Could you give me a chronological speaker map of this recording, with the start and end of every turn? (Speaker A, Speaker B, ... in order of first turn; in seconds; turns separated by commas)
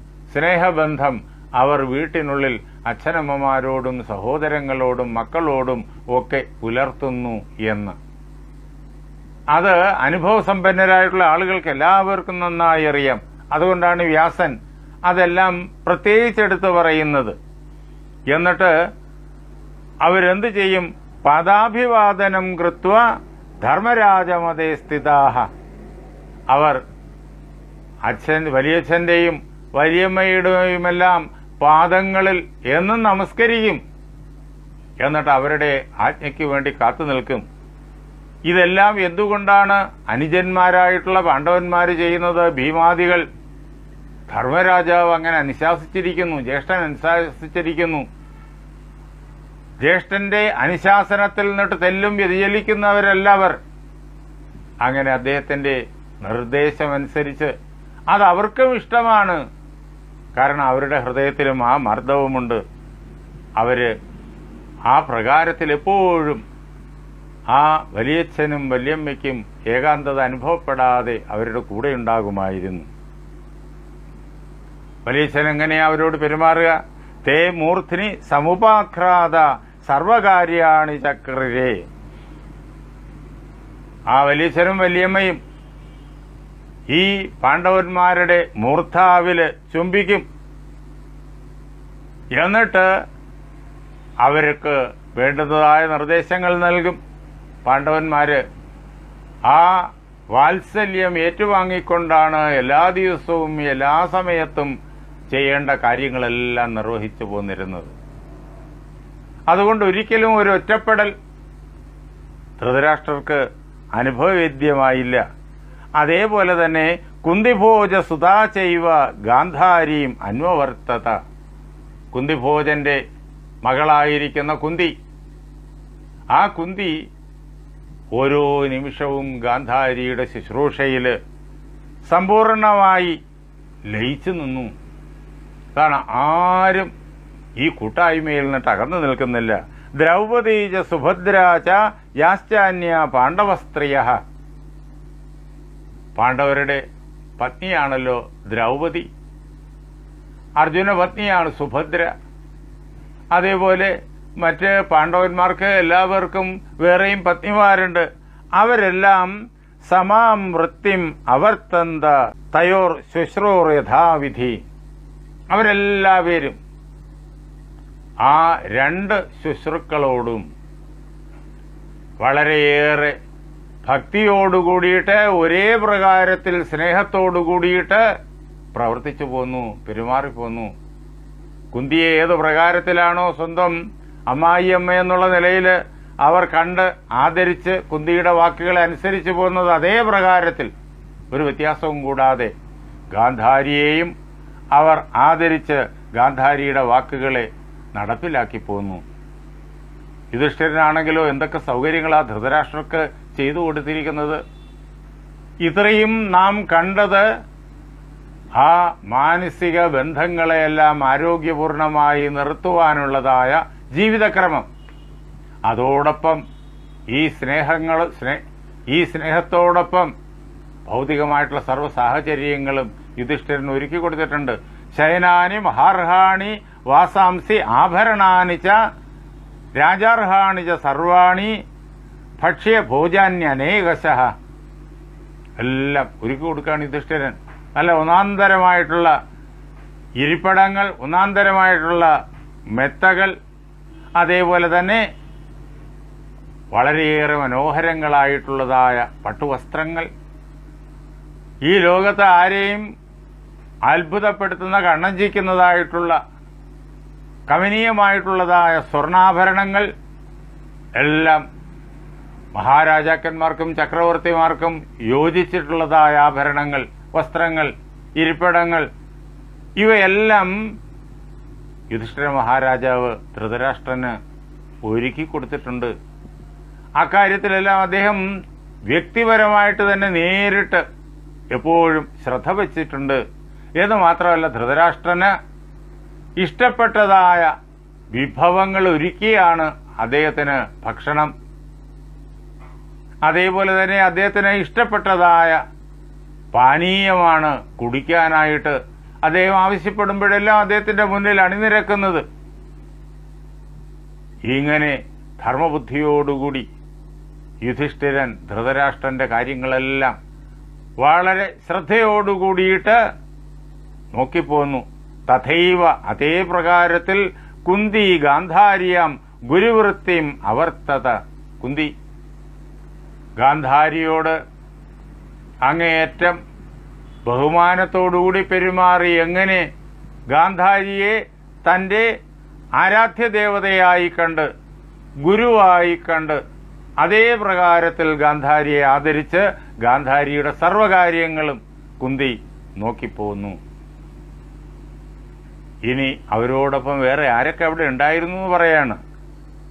Speaker A: 0.3-8.0, Speaker A: 9.5-14.5, Speaker A: 15.1-17.4, Speaker A: 18.3-18.7, Speaker A: 20.0-23.0, Speaker A: 23.6-25.4, Speaker A: 26.5-26.8, Speaker A: 28.1-33.8, Speaker A: 35.0-37.4, Speaker A: 38.5-43.2, Speaker A: 44.3-48.0, Speaker A: 49.8-53.6, Speaker A: 54.8-57.5, Speaker A: 58.1-59.4, Speaker A: 60.4-62.6, Speaker A: 63.6-63.9, Speaker A: 64.9-66.4, Speaker A: 67.5-72.9, Speaker A: 75.0-81.8, Speaker A: 84.1-85.4, Speaker A: 86.9-90.2, Speaker A: 92.3-92.9, Speaker A: 94.2-97.0, Speaker A: 97.6-98.4, Speaker A: 99.5-104.7, Speaker A: 105.3-107.9, Speaker A: 109.5-111.1, Speaker A: 112.6-113.4, Speaker A: 114.0-115.2, Speaker A: 116.0-121.2, Speaker A: 122.1-123.0, Speaker A: 123.6-124.9, Speaker A: 126.3-126.9, Speaker A: 128.2-131.2, Speaker A: 132.1-133.2, Speaker A: 133.9-134.7, Speaker A: 135.7-136.9, Speaker A: 137.6-144.2, Speaker A: 146.2-146.8, Speaker A: 147.4-149.1, Speaker A: 150.6-152.1, Speaker A: 153.3-158.1, Speaker A: 158.6-164.6, Speaker A: 165.5-166.6, Speaker A: 168.2-170.5, Speaker A: 172.2-173.2, Speaker A: 173.8-178.0, Speaker A: 178.7-180.7, Speaker A: 181.7-183.8, Speaker A: 184.3-190.7, Speaker A: 191.3-192.5, Speaker A: 193.1-194.1, Speaker A: 194.7-199.0, Speaker A: 200.3-204.4, Speaker A: 205.6-207.2, Speaker A: 208.6-214.7, Speaker A: 215.7-216.4, Speaker A: 217.1-218.4, Speaker A: 218.9-220.1, Speaker A: 220.9-228.8, Speaker A: 229.8-231.5, Speaker A: 232.4-234.3, Speaker A: 235.6-239.1, Speaker A: 240.2-242.1, Speaker A: 242.8-243.3, Speaker A: 244.2-245.0, Speaker A: 246.7-250.1, Speaker A: 251.7-252.8, Speaker A: 253.9-256.2, Speaker A: 257.5-259.9, Speaker A: 261.0-261.4, Speaker A: 262.6-268.9, Speaker A: 269.8-270.6, Speaker A: 271.9-274.1, Speaker A: 274.9-275.9, Speaker A: 277.0-278.2, Speaker A: 278.9-280.8, Speaker A: 281.5-283.2, Speaker A: 283.8-285.3, Speaker A: 286.4-287.5, Speaker A: 288.1-291.3, Speaker A: 293.2-295.6, Speaker A: 296.5-302.2, Speaker A: 304.5-306.7, Speaker A: 307.6-310.1, Speaker A: 311.0-313.0, Speaker A: 314.1-321.9, Speaker A: 323.4-324.4, Speaker A: 325.6-326.4, Speaker A: 327.2-329.6, Speaker A: 330.3-332.1, Speaker A: 332.8-334.5, Speaker A: 335.2-336.4, Speaker A: 337.0-343.6, Speaker A: 345.9-349.0